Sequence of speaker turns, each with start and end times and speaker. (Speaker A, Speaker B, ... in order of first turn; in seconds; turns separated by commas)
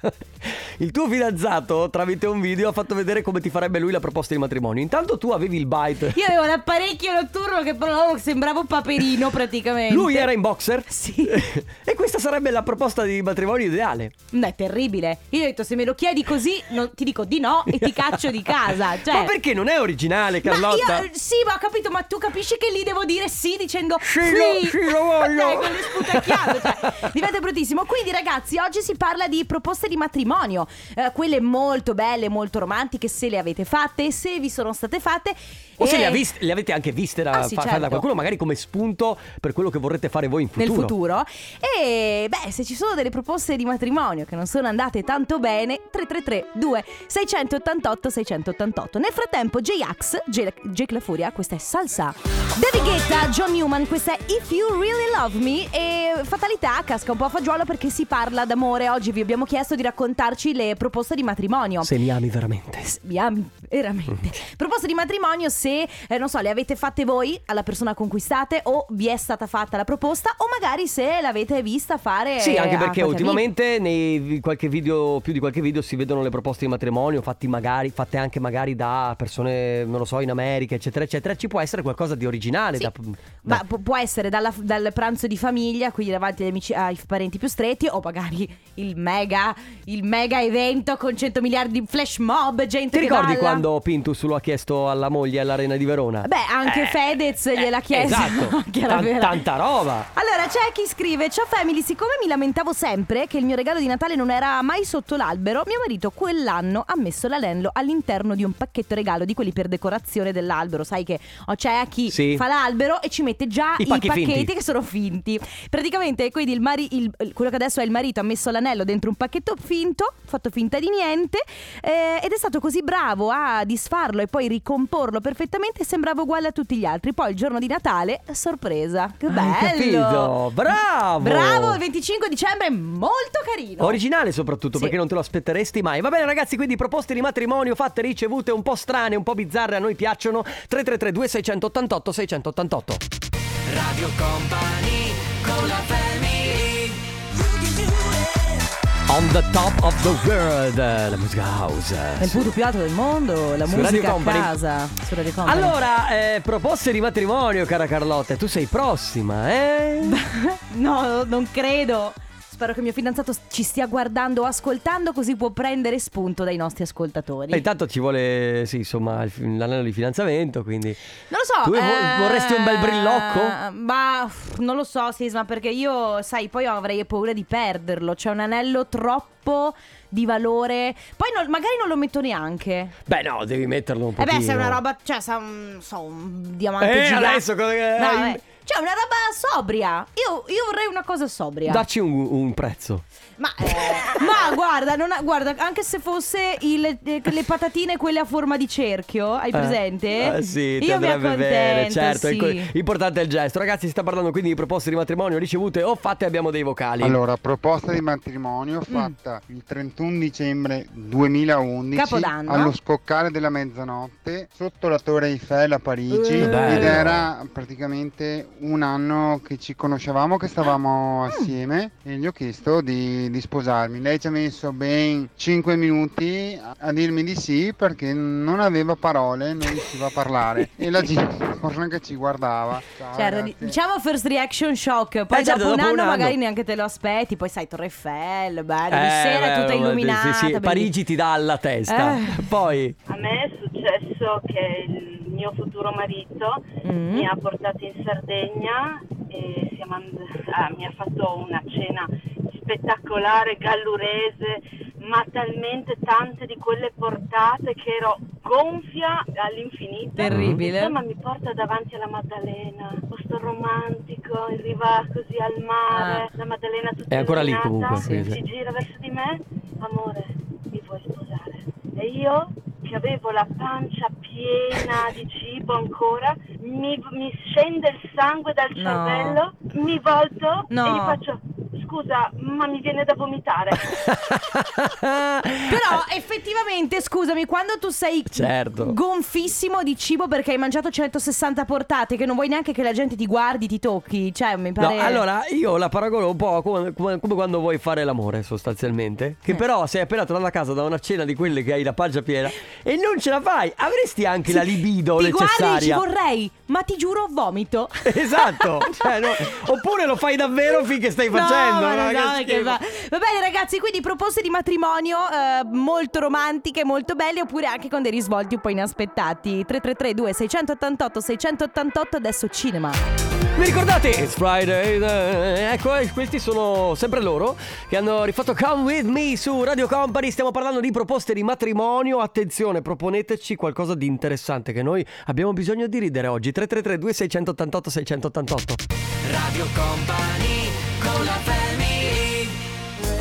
Speaker A: 0.9-6.0, Speaker B: 6.1-10.3, Speaker A: 9.9-10.8, Speaker B: 10.9-11.4, Speaker A: 11.9-14.1, Speaker B: 14.3-19.3, Speaker A: 19.1-21.0, Speaker B: 20.4-36.3, Speaker A: 24.1-25.5, Speaker A: 35.8-40.9, Speaker B: 37.3-38.1, Speaker B: 40.6-62.0, Speaker A: 61.9-62.8, Speaker B: 62.8-73.5, Speaker A: 72.4-83.6, Speaker B: 83.4-93.7, Speaker A: 92.9-96.9, Speaker B: 96.2-99.5, Speaker A: 97.9-100.0, Speaker B: 100.1-130.4, Speaker A: 112.1-112.4, Speaker A: 113.8-114.5, Speaker A: 129.3-131.8, Speaker B: 131.2-134.0, Speaker A: 133.8-143.0, Speaker C: 143.7-148.6, Speaker A: 149.1-152.4, Speaker C: 149.9-150.2, Speaker B: 152.2-155.8, Speaker A: 153.7-154.5, Speaker A: 155.4-160.1, Speaker B: 160.0-167.7, Speaker A: 167.5-170.9, Speaker B: 171.3-182.9, Speaker A: 171.6-173.5, Speaker A: 183.1-184.8, Speaker B: 184.2-191.9, Speaker A: 186.8-188.4, Speaker A: 191.7-193.0, Speaker B: 193.4-202.7, Speaker A: 199.5-207.2, Speaker D: 207.0-233.8, Speaker B: 208.9-209.1, Speaker B: 211.9-212.7, Speaker B: 216.1-217.0, Speaker A: 216.4-217.2, Speaker B: 233.1-240.9, Speaker A: 235.3-236.3, Speaker A: 238.9-242.9, Speaker B: 241.9-242.4, Speaker E: 243.1-283.9, Speaker B: 246.8-247.3, Speaker B: 260.2-261.0, Speaker A: 260.3-260.6, Speaker B: 265.9-266.3, Speaker A: 267.1-268.4, Speaker B: 268.0-268.2, Speaker B: 278.8-279.4, Speaker B: 280.7-281.2, Speaker A: 283.9-286.0, Speaker B: 285.7-295.2, Speaker A: 288.3-288.9, Speaker A: 294.8-306.0, Speaker B: 304.4-309.3, Speaker A: 308.1-312.8, Speaker B: 311.3-323.0, Speaker A: 323.6-338.8, Speaker C: 339.2-342.6